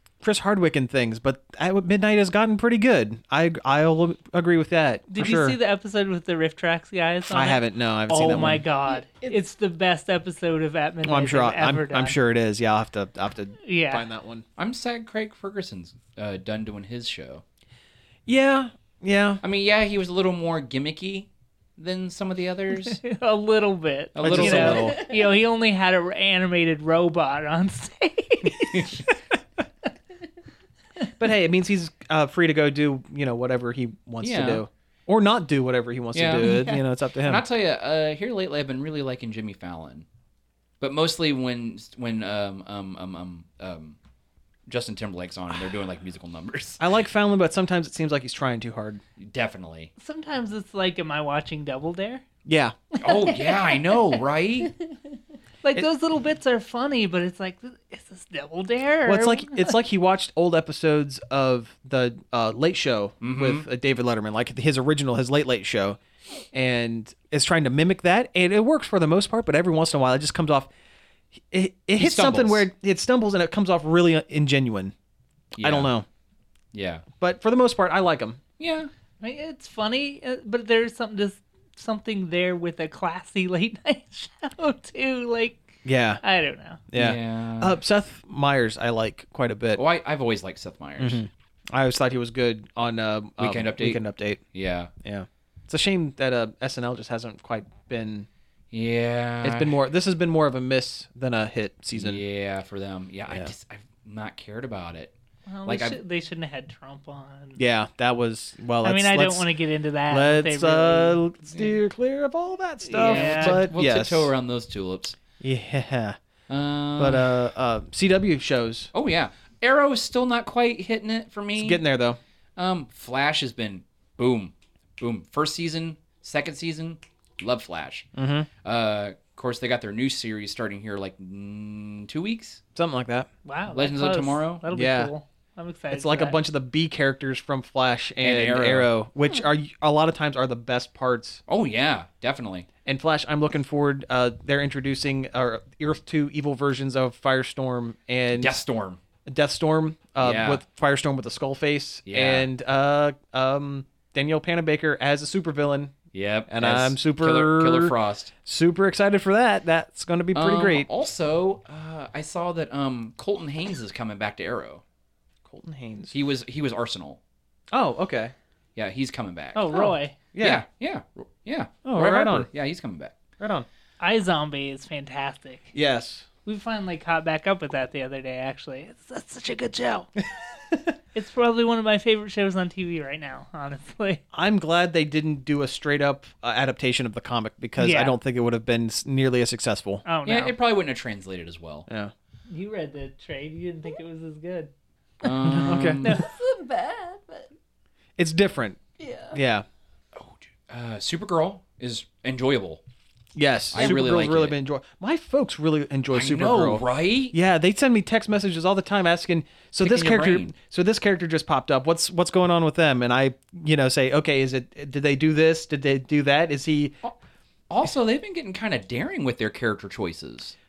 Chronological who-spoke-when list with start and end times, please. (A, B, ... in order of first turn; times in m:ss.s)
0:00.2-0:05.6 A
0:05.1-0:12.2 B
0:07.3-0:08.6 A
0:08.9-0:09.4 C
0:11.0-0:14.4 A
0:13.6-0:14.1 B
0:14.6-0:17.4 D
0:18.3-0:19.4 A
0:19.4-0:23.0 D
0:22.8-0:29.0 B
0:24.2-0:25.0 D
0:24.2-0:25.0 A
0:25.0-0:25.2 C
0:28.6-0:29.0 D
0:31.2-0:37.4 A
0:34.2-0:34.6 D
0:36.1-0:40.1 D
0:36.4-0:36.8 C
0:40.8-0:44.0 D
0:44.7-0:46.8 D
0:46.8-0:49.0 A
0:49.2-0:49.9 D
0:50.0-0:52.2 B
0:52.5-0:52.8 A
0:53.0-0:54.7 D
0:53.0-0:53.8 B
0:55.6-0:59.8 B
0:59.0-1:06.0 A
1:03.2-1:03.7 D
1:06.5-1:10.7 A
1:11.5-1:14.9 A
1:12.0-1:12.6 D
1:15.6-1:15.9 D
1:15.6-1:16.1 A
1:16.7-1:17.1 D
1:17.2-1:18.4 A
1:18.6-1:18.9 D
1:19.2-1:26.8 B
1:25.8-1:26.2 A
1:26.9-1:29.8 A
1:27.0-1:27.8 D
1:29.8-1:31.2 D
1:31.0-1:34.4 A
1:33.4-1:34.9 D
1:35.0-1:38.3 A
1:38.7-1:39.8 D
1:39.4-1:42.2 A
1:41.9-1:45.1 D
1:45.5-1:47.6 B
1:45.7-1:46.0 D
1:47.6-1:49.5 A
1:48.8-1:51.2 B
1:50.1-1:54.3 A
1:51.5-1:51.8 D
1:52.9-1:53.7 B
1:52.9-1:55.2 D
1:55.4-1:56.2 A
1:56.5-1:57.3 D
1:57.0-1:58.9 A
1:58.9-2:01.8 D
2:01.6-2:02.2 A
2:02.6-2:08.1 D
2:08.2-2:08.5 A
2:08.6-2:12.6 D
2:12.8-2:13.3 A
2:13.5-2:16.4 B
2:13.7-2:14.6 D
2:14.7-2:15.1 A
2:15.9-2:21.4 A
2:18.2-2:18.9 D
2:21.5-2:22.7 D
2:22.9-2:28.6 A
2:28.3-2:29.0 D
2:29.3-2:35.9 A
2:30.2-2:30.6 D
2:32.1-2:32.5 D
2:36.1-2:38.3 D
2:36.5-2:38.0 A
2:38.5-2:40.9 A
2:40.3-2:44.8 D
2:45.5-2:46.1 A
2:46.1-2:47.2 D
2:47.7-2:48.3 A
2:48.8-2:49.9 D
2:49.6-2:50.2 B
2:49.8-2:50.6 A
2:50.4-2:53.2 D
2:51.8-2:52.5 A
2:53.4-2:53.7 A
2:54.0-2:55.7 B
2:55.7-2:56.3 A
2:56.4-3:00.1 B
3:01.1-3:04.2 B
3:04.3-3:10.0 A
3:07.8-3:08.2 B
3:10.0-3:10.5 B
3:10.2-3:11.9 D
3:11.9-3:12.1 A
3:12.5-3:14.7 B
3:15.2-3:16.2 D
3:15.2-3:16.3 B
3:15.5-3:16.1 A
3:16.2-3:17.5 C
3:18.2-3:18.8 A
3:19.0-3:19.4 C
3:19.3-3:19.7 A
3:20.2-3:22.8 D
3:23.4-3:37.0 A
3:23.7-3:24.6 D
3:26.1-3:27.4 D
3:29.8-3:30.5 D
3:37.7-3:40.6 D